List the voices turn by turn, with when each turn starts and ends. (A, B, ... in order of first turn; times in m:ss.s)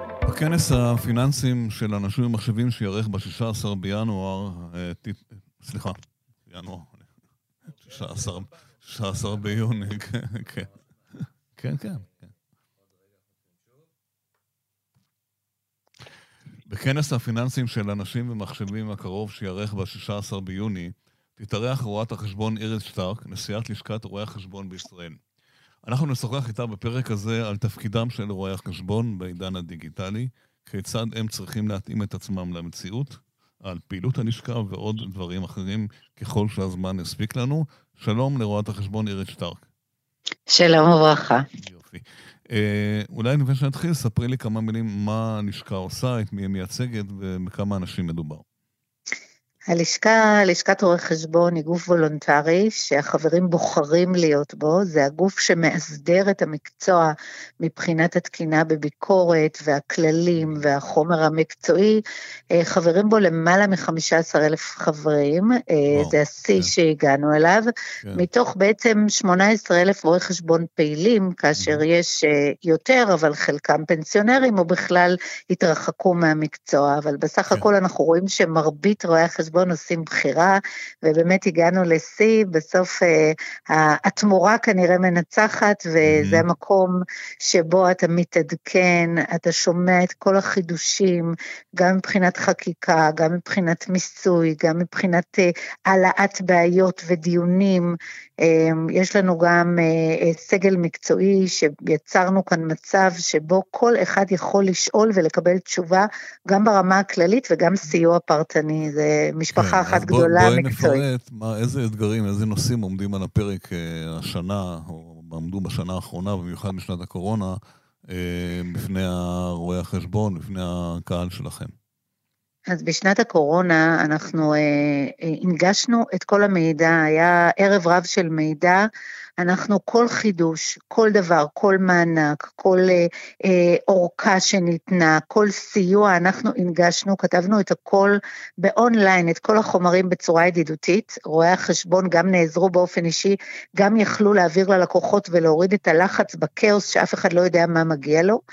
0:00.2-0:07.0 A
0:07.8-0:12.1 A
0:16.7-0:25.2 A
0:25.8-0:39.6 A
0:40.5-0:41.4 B
0:41.6-0:48.4 A
0:49.7-1:02.0 B
1:02.5-1:51.0 B
1:05.9-1:06.7 A
1:11.6-1:11.8 A
1:26.0-1:26.4 A
1:49.5-2:01.7 A
2:02.7-2:08.8 B
2:09.4-2:28.4 B